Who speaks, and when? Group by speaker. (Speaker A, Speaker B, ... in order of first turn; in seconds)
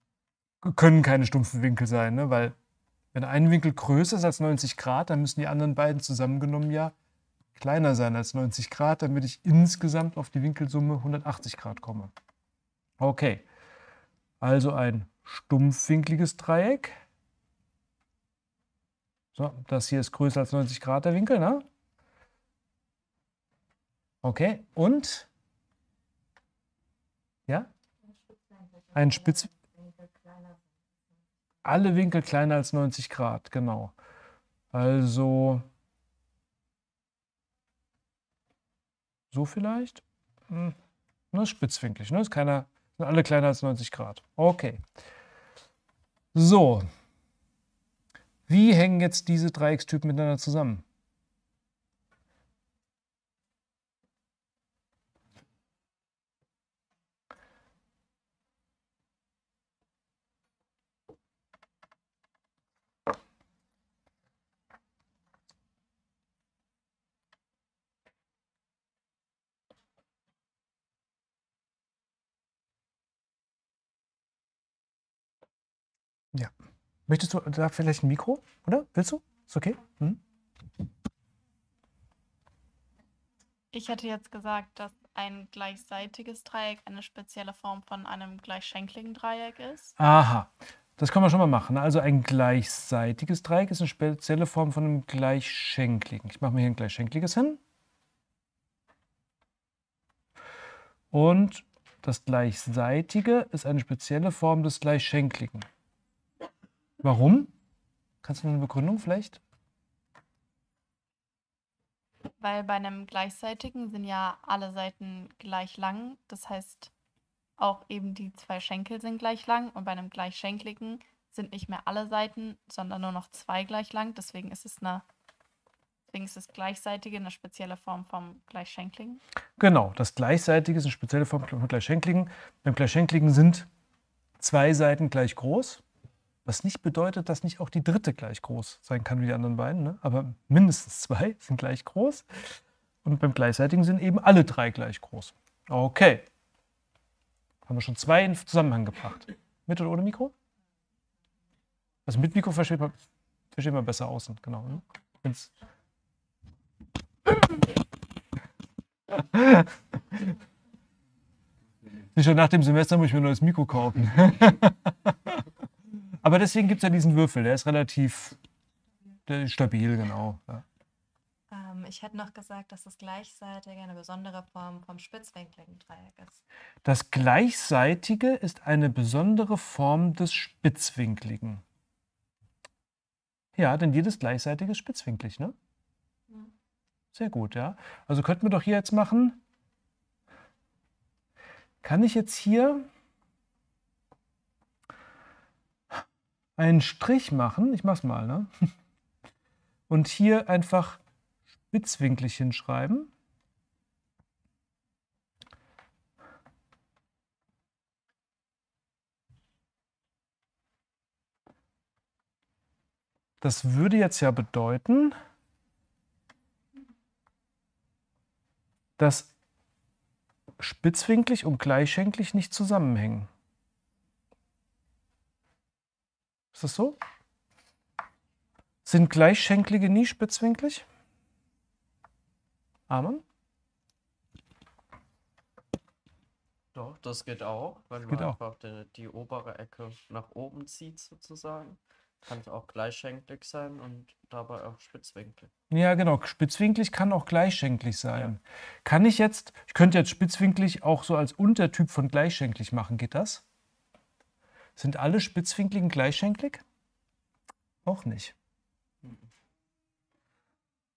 Speaker A: 0.6-2.6, 3.1-6.9, 7.5-12.1, 13.0-13.5, 14.4-17.0, 19.4-21.6, 24.2-25.3, 28.9-29.5, 31.6-33.9, 34.7-35.7, 39.3-40.8, 41.3-44.8, 46.3-46.9, 48.5-50.8, 77.1-80.2, 90.0-97.6, 101.1-105.7, 107.0-107.5, 108.2-109.4, 129.6-133.7, 134.4-135.8, 136.4-142.3, 143.0-146.3, 147.7-150.3, 152.1-153.0, 153.5-155.5, 159.1-160.3, 162.2-165.4, 166.2-168.4, 169.3-170.6, 176.8-181.6, 183.6-185.6, 187.1-189.4, 191.8-192.9, 196.6-198.5, 199.9-201.0, 201.7-203.1, 213.4-215.2, 219.0-219.3, 220.6-223.3, 226.5-227.0, 228.8-230.8, 232.9-233.2, 238.1-238.4, 245.7-253.5, 254.8-256.6, 257.9-258.4
Speaker B: 28.3-30.8, 171.5-176.4
Speaker C: 83.7-89.9, 112.4-116.9, 117.6-125.0, 126.1-129.2
Speaker D: 236.7-245.5